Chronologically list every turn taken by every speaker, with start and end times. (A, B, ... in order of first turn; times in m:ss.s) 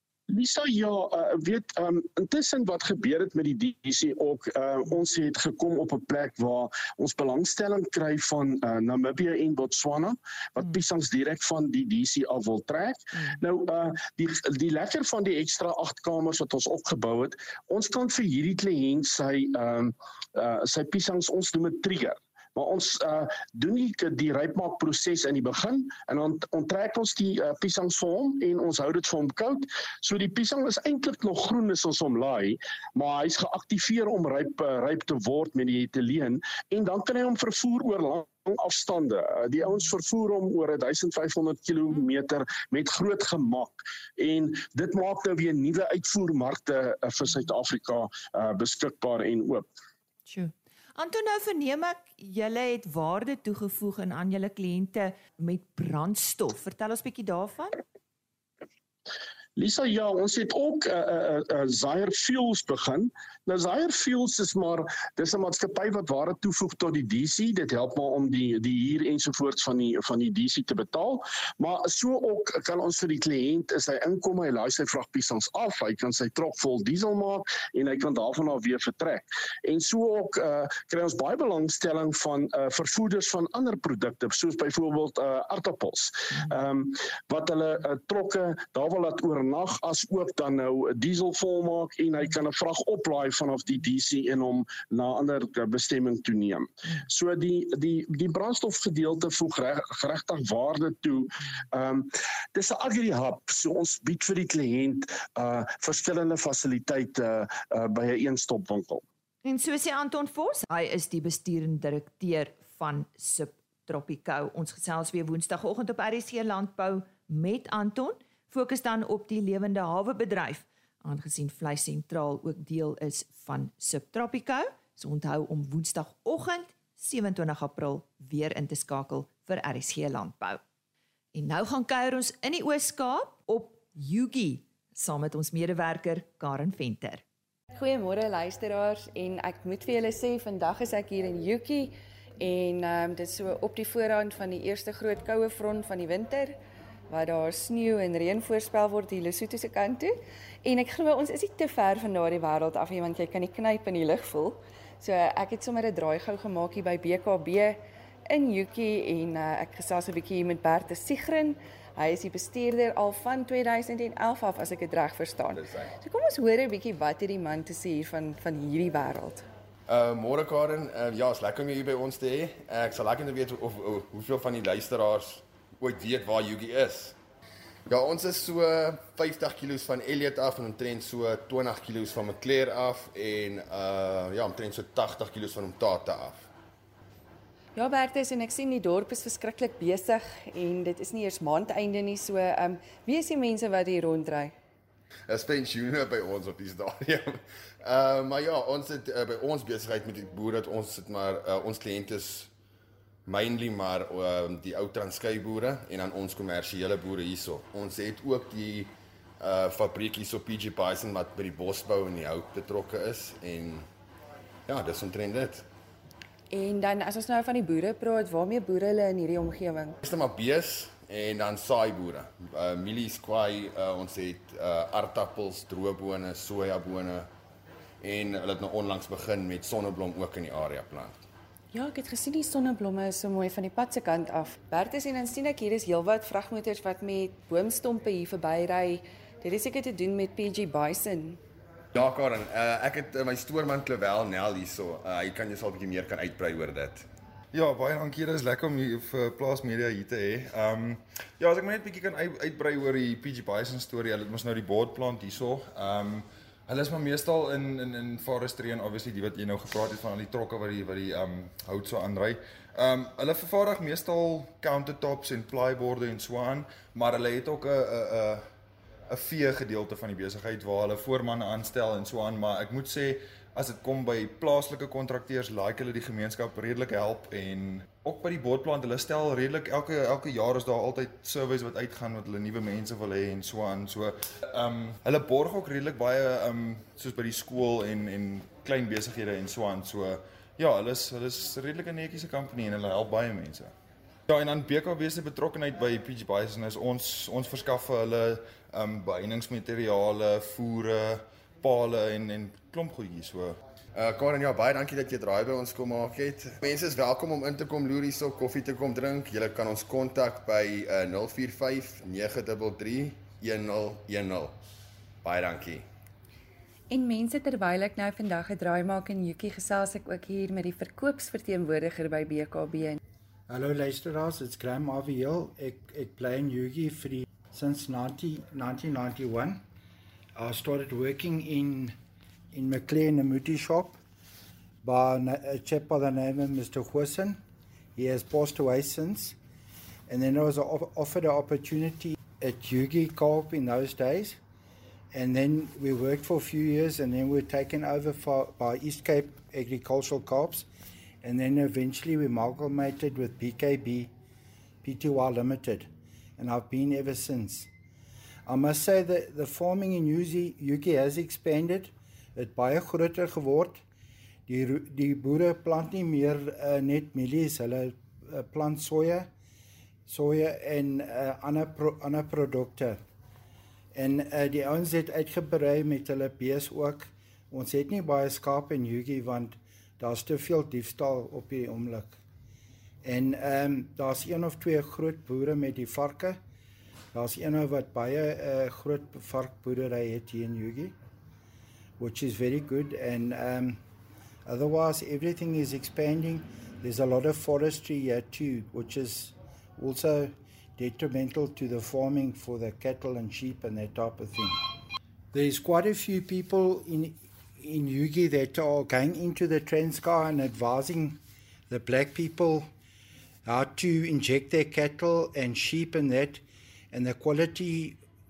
0:00.3-0:49.7 A
0:50.3-0:57.8 B
0:59.6-1:49.0 A
1:49.4-2:10.6 B
2:11.3-2:17.2 B
2:17.8-2:26.6 C
2:27.1-2:49.4 C
2:49.9-2:57.2 D
2:57.9-3:06.5 D
3:07.8-3:14.5 C
3:15.3-3:22.5 D
3:23.3-3:33.9 D
3:34.7-3:35.7 D
3:36.5-3:40.0 C
3:40.0-3:47.3 D
3:48.0-3:51.2 D
3:51.7-4:01.4 C
4:01.9-4:07.1 D
4:07.5-4:28.5 E
4:29.1-4:53.7 E
4:54.3-5:03.6 E
5:04.0-5:14.6 D
5:15.2-5:15.9 D
5:16.9-5:23.0 C
5:23.5-5:29.6 F
5:30.4-5:32.0 F
5:32.5-5:34.0 F
5:34.8-5:37.4 F
5:38.0-5:39.4 F
5:40.1-5:44.4 F
5:45.1-5:50.7 F
5:51.2-5:54.1 F
5:54.8-5:57.7 F
5:58.5-6:03.8 F
6:04.5-6:09.3 F
6:10.1-6:13.0 F
6:13.9-6:22.2 F
6:23.0-6:26.4 F
6:27.1-6:31.0 F
6:32.0-6:33.8 F
6:34.5-6:44.6 F
6:45.3-6:52.7 F
6:53.4-6:58.0 F